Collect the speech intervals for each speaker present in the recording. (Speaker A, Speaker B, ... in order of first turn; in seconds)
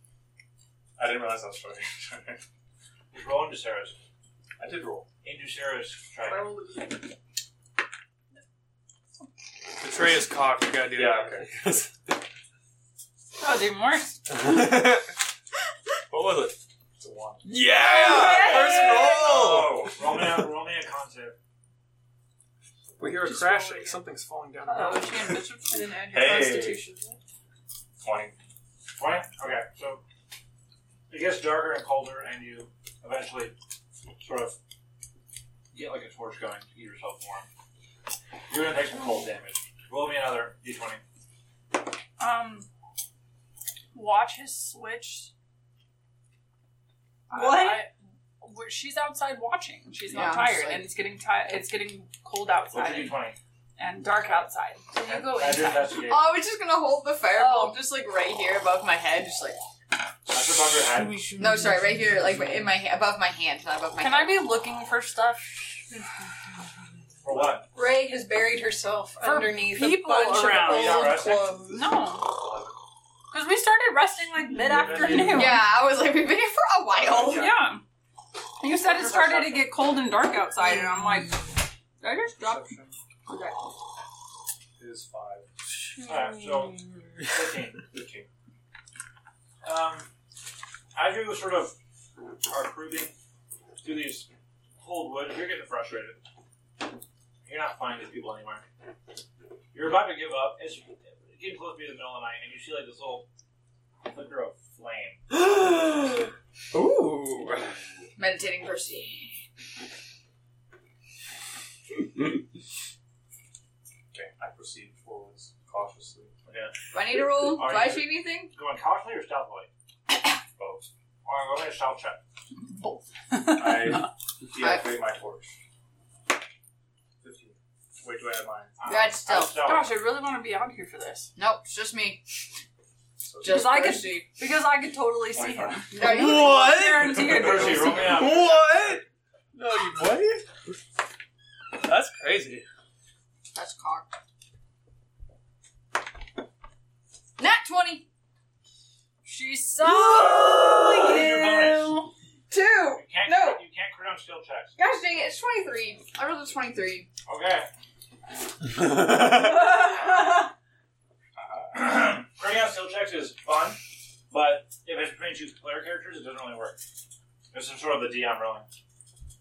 Speaker A: 1.0-2.4, 4.6-5.1, 10.9-11.6, 17.0-20.4, 26.1-26.8, 28.0-28.3, 67.3-67.6, 72.2-72.8, 77.1-77.4, 82.4-83.0, 84.8-85.5, 87.9-88.3, 114.1-116.3, 120.6-120.9, 123.3-125.5, 127.2-128.8, 133.2-133.8, 135.3-135.9, 137.5-137.8, 161.4-161.8
Speaker B: 3.1-4.0, 5.2-6.5, 19.0-21.4, 29.0-30.0, 31.1-33.5, 34.2-34.6, 35.7-37.5, 38.5-41.0, 52.7-53.4, 55.0-56.4, 60.3-61.4, 67.2-67.7, 70.3-71.6, 74.7-75.4, 78.8-79.7, 86.0-87.9, 89.6-90.1, 91.0-91.8, 92.5-93.1, 93.8-96.2, 97.5-98.6, 99.7-103.3, 104.0-105.2, 116.5-116.7, 117.3-119.7, 121.2-122.2, 128.8-129.9, 137.2-138.8, 150.9-152.1, 152.9-154.8, 157.3-157.7, 161.7-163.8, 164.3-166.8, 167.5-168.7
Speaker C: 6.2-7.0, 18.1-19.1, 23.1-24.0, 25.6-27.2, 47.3-47.9, 67.7-71.7, 75.0-75.3, 159.1-160.5
Speaker D: 9.8-11.9, 14.3-15.2, 16.1-16.6, 17.4-19.7, 23.0-25.4, 86.7-87.3, 105.3-107.8, 136.0-140.8, 141.8-142.7, 158.7-159.8
Speaker E: 13.4-14.2, 17.8-18.9, 24.6-25.9, 42.2-42.7, 43.9-45.3, 47.3-53.2, 53.8-56.1, 57.3-57.8, 64.0-65.9, 69.2-71.2, 71.7-72.3, 73.3-75.7, 77.3-77.8, 78.6-82.7, 83.3-83.7, 122.6-124.1, 129.6-131.3, 133.5-138.3, 149.2-152.1
Speaker F: 50.1-50.9, 56.1-59.6, 61.3-64.5, 71.0-71.7, 75.2-77.6, 108.2-109.4, 116.9-118.5, 124.6-124.9, 128.8-129.6, 131.4-132.2, 133.4-134.3, 135.9-136.9, 143.5-144.1, 147.4-148.1, 149.9-150.6, 152.5-153.6, 154.8-157.1